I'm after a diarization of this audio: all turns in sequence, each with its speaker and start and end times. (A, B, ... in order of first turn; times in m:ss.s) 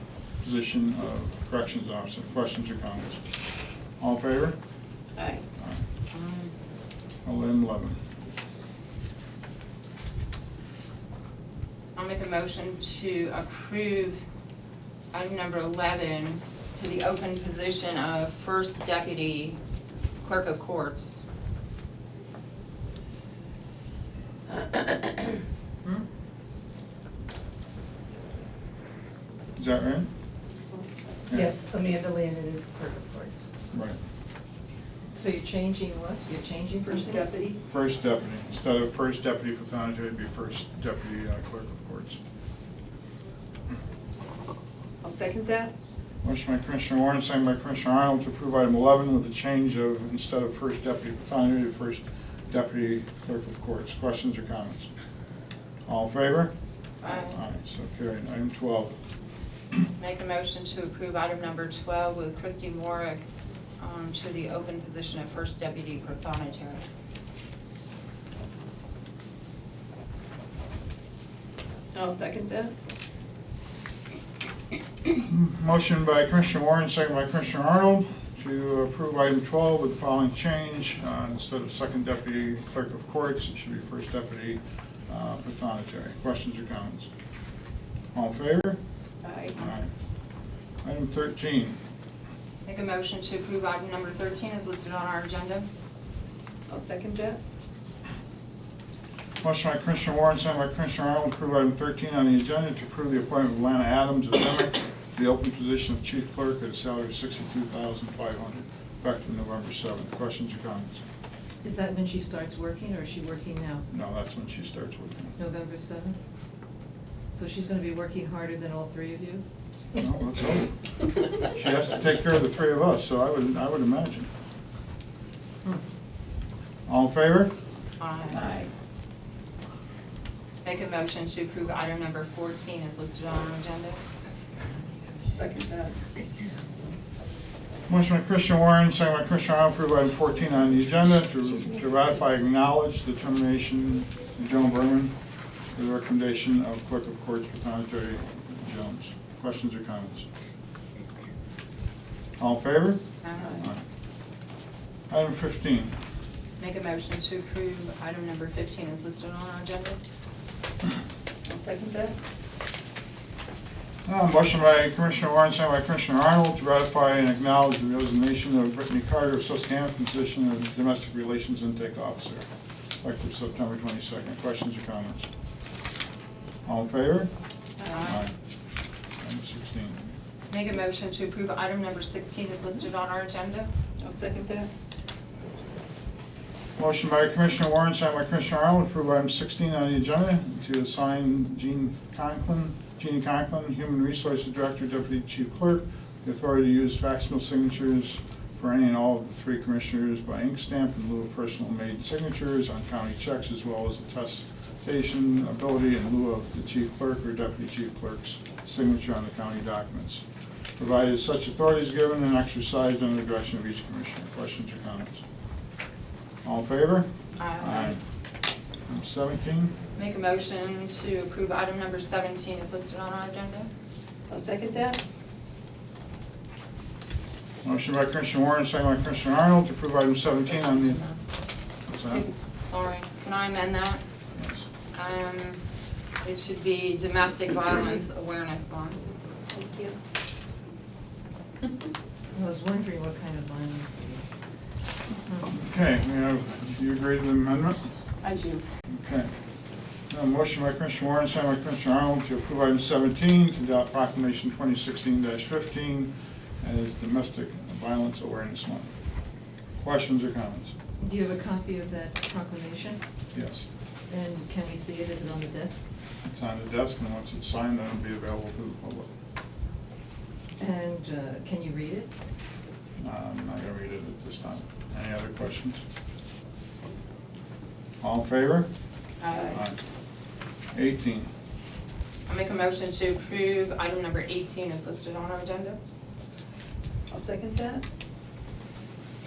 0:00.4-0:03.2 A
0:04.0-0:04.6 A
0:05.2-0:05.4 B
0:05.6-0:05.8 A
0:06.1-0:06.5 C
0:07.2-0:08.0 A
0:12.0-0:14.2 C
0:15.1-0:19.6 C
0:20.2-0:21.2 C
0:29.6-0:30.1 A
0:30.7-0:31.3 B
0:31.3-0:31.5 A
0:31.3-0:33.5 D
0:33.7-0:34.0 A
0:35.2-0:37.3 D
0:36.8-0:37.6 B
0:37.7-0:42.2 A
0:45.0-0:45.7 B
0:46.2-0:54.9 A
0:55.9-0:56.5 A
0:57.0-0:57.4 C
0:57.0-0:58.9 A
1:00.0-1:03.2 C
1:03.8-1:06.9 C
1:11.9-1:12.7 B
1:15.2-1:27.1 A
1:28.1-1:28.8 A
1:29.2-1:29.6 B
1:29.6-1:29.9 A
1:30.8-1:31.8 A
1:32.6-1:35.7 C
1:36.7-1:37.4 B
1:39.4-1:51.0 A
1:51.6-1:53.9 D
1:53.9-1:55.4 A
1:55.4-1:56.2 D
1:57.3-1:59.4 D
2:00.0-2:00.8 A
2:01.4-2:04.3 A
2:06.9-2:07.5 A
2:08.0-2:08.5 C
2:08.4-2:08.7 B
2:10.6-2:14.0 C
2:15.3-2:16.0 B
2:17.9-2:25.2 A
2:25.7-2:30.3 A
2:32.4-2:33.0 A
2:33.2-2:33.5 C
2:33.4-2:33.7 B
2:33.6-2:33.8 A
2:35.1-2:36.0 A
2:36.6-2:40.0 C
2:41.4-2:42.2 B
2:44.0-2:52.5 A
2:53.0-2:55.3 A
2:56.6-2:57.3 A
2:57.9-2:58.2 C
2:58.0-2:58.3 A
2:59.2-3:00.1 A
3:00.5-3:03.7 C
3:04.0-3:04.7 B
3:06.8-3:30.2 A
3:30.8-3:35.2 A
3:36.4-3:38.0 A
3:37.4-3:38.0 C
3:38.9-3:39.7 A
3:40.0-3:43.7 C
3:44.3-3:45.0 B
3:47.6-3:51.0 A
3:50.5-3:51.2 C
3:51.9-3:52.3 A
3:52.1-3:54.0 C
3:54.4-3:54.6 A
3:54.9-3:55.6 C
3:56.2-3:59.0 C
3:59.5-4:00.0 B
4:02.3-4:04.3 D
4:05.1-4:05.5 D
4:05.5-4:07.9 A
4:08.2-4:08.6 B
4:08.9-4:09.3 A
4:10.1-4:18.9 A
4:19.8-4:20.8 A
4:21.0-4:23.0 D
4:23.3-4:23.7 A
4:24.1-4:25.8 D
4:26.2-4:29.1 A
4:30.6-4:32.1 D
4:33.0-4:35.8 A
4:38.0-4:38.7 A
4:39.2-4:39.6 B
4:39.5-4:39.8 A
4:40.7-4:41.3 A
4:42.3-4:45.8 C
4:47.1-4:47.8 B